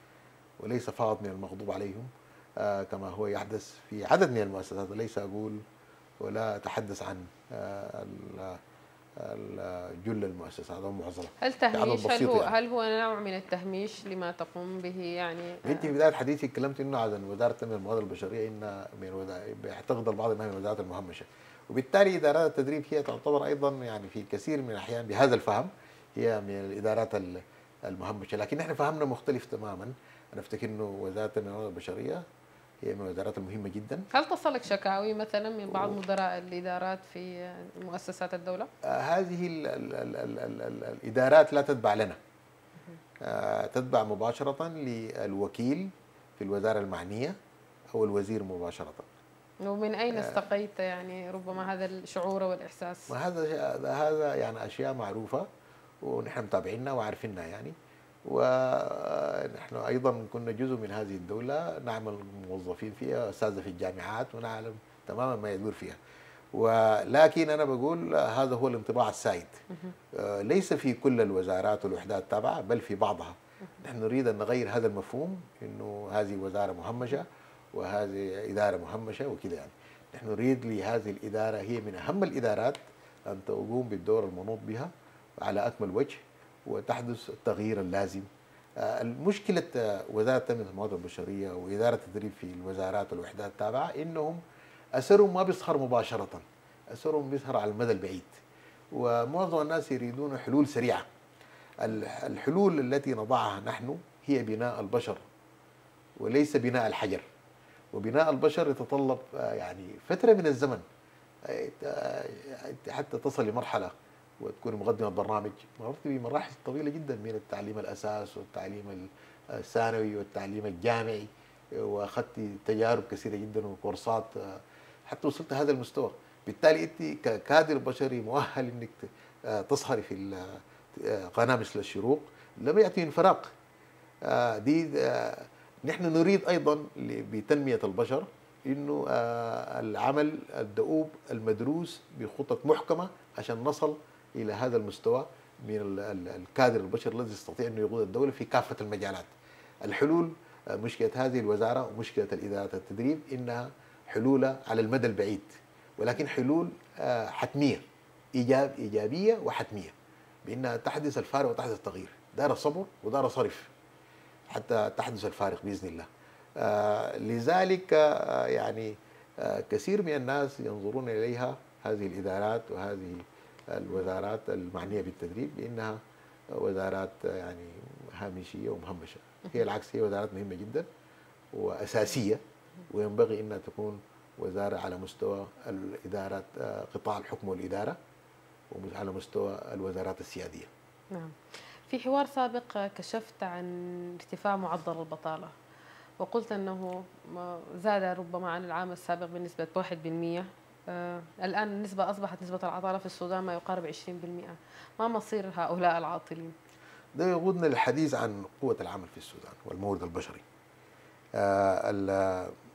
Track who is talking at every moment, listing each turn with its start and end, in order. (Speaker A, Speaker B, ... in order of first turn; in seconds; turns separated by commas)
Speaker A: 0.6-5.6, Speaker A: 6.2-8.6, Speaker A: 9.2-12.5, Speaker B: 11.4-15.9, Speaker A: 15.6-32.2, Speaker A: 32.8-34.1, Speaker B: 34.1-38.7, Speaker A: 35.7-36.0, Speaker A: 38.8-42.2, Speaker A: 43.2-47.4, Speaker A: 47.9-49.1, Speaker B: 49.6-53.1, Speaker A: 50.1-50.4, Speaker A: 53.1-55.5, Speaker A: 56.0-57.8, Speaker A: 58.3-66.0, Speaker A: 66.5-88.3, Speaker A: 88.8-94.4, Speaker A: 95.0-98.4, Speaker A: 98.9-101.1, Speaker A: 101.8-105.2, Speaker A: 106.2-107.2, Speaker A: 107.9-110.8, Speaker A: 111.5-133.5, Speaker A: 134.2-149.3, Speaker A: 149.8-159.9, Speaker A: 160.4-163.7, Speaker A: 164.5-180.9, Speaker A: 181.5-188.0, Speaker A: 188.7-190.7, Speaker B: 191.9-195.5, Speaker B: 196.2-206.6, Speaker A: 207.2-210.4, Speaker A: 211.4-212.6